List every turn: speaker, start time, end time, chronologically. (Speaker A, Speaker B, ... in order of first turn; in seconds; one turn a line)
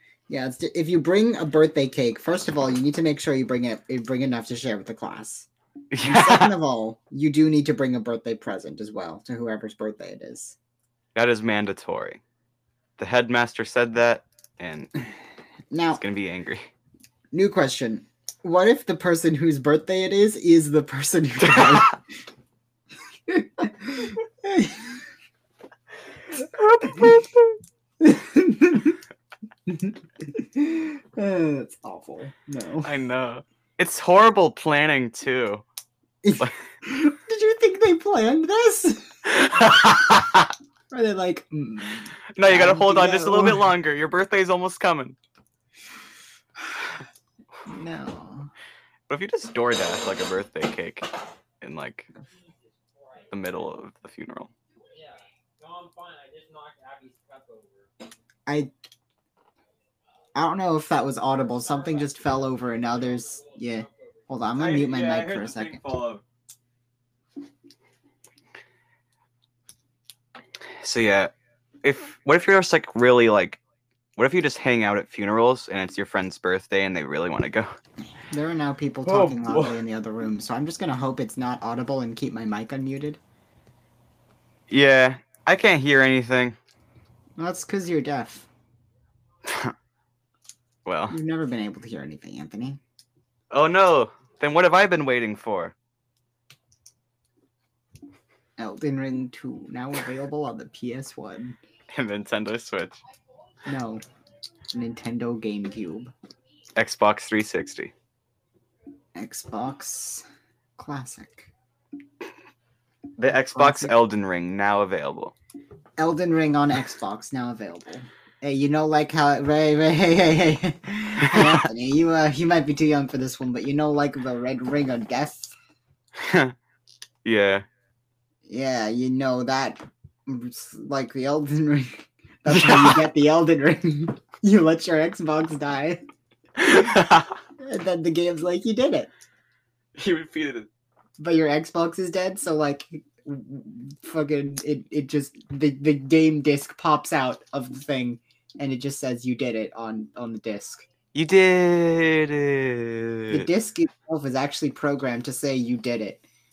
Speaker A: 0.3-5.5
Speaker B: 5.9-6.5
Speaker A: 6.0-10.6
Speaker B: 11.2-12.2
Speaker B: 13.0-14.9
Speaker A: 15.7-16.0
Speaker B: 16.0-16.7
Speaker A: 17.3-22.0
Speaker A: 23.3-25.0
Speaker B: 26.4-27.6
Speaker A: 28.0-29.0
Speaker A: 29.7-32.9
Speaker B: 32.8-35.6
Speaker A: 36.2-39.2
Speaker B: 39.3-40.5
Speaker A: 40.9-43.7
Speaker B: 42.4-45.2
Speaker A: 47.7-48.5
Speaker B: 49.1-51.1
Speaker B: 51.6-52.1
Speaker C: 52.9-53.2
Speaker B: 53.3-54.5
Speaker C: 54.9-57.9
Speaker A: 60.4-66.0
Speaker C: 61.5-63.9
Speaker B: 64.5-66.2
Speaker B: 70.8-71.3
Speaker B: 71.8-73.6
Speaker B: 74.2-77.7
Speaker A: 78.3-83.2
Speaker B: 79.0-79.8
Speaker B: 84.7-86.6
Speaker A: 87.4-88.5
Speaker B: 89.5-89.7
Speaker B: 90.8-91.2
Speaker A: 91.1-92.8
Speaker B: 93.5-95.8
Speaker A: 98.6-101.6
Speaker B: 101.9-103.0
Speaker A: 103.7-104.0
Speaker A: 104.7-106.1
Speaker B: 106.8-107.9
Speaker A: 109.2-110.2
Speaker A: 110.8-111.5
Speaker B: 113.2-115.3
Speaker A: 113.5-114.0
Speaker A: 116.0-125.5
Speaker B: 121.3-121.7
Speaker B: 126.2-126.5
Speaker B: 127.2-127.7
Speaker A: 128.5-136.0
Speaker B: 132.5-133.0
Speaker B: 136.6-137.4
Speaker A: 137.6-139.1
Speaker B: 140.0-140.7
Speaker A: 141.2-150.8
Speaker B: 151.1-153.5
Speaker A: 153.3-156.2